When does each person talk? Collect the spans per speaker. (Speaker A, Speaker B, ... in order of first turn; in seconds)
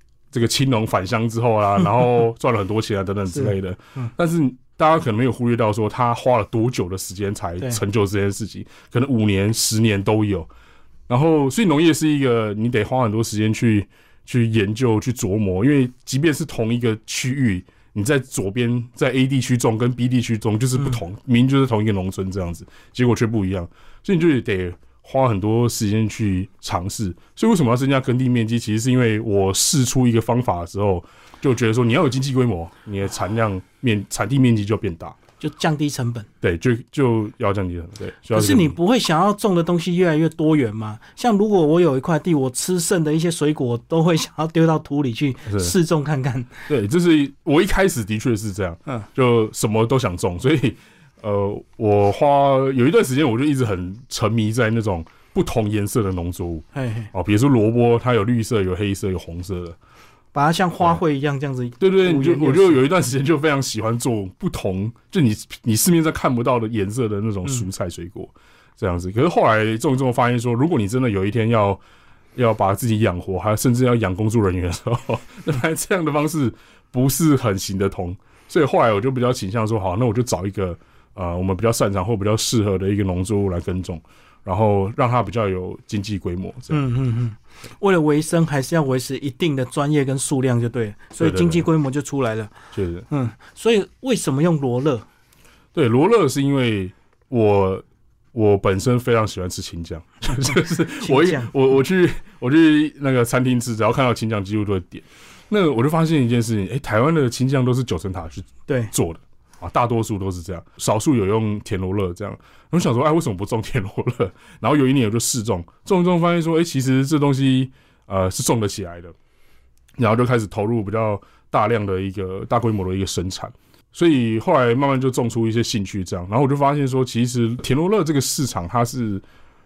Speaker A: 0.3-10.5, 11.1-35.2, 36.4-38.8, 45.5-45.7, 46.7-59.8, 61.8-71.8, 72.3-86.8, 91.2-91.7, 92.7-93.1, 95.8-119.2, 120.0-129.2
Speaker B: 3.4-4.1, 35.4-36.3, 38.3-46.7, 56.7-57.1, 60.3-62.8, 86.7-92.5, 93.1-95.1, 101.0-101.5, 108.7-108.9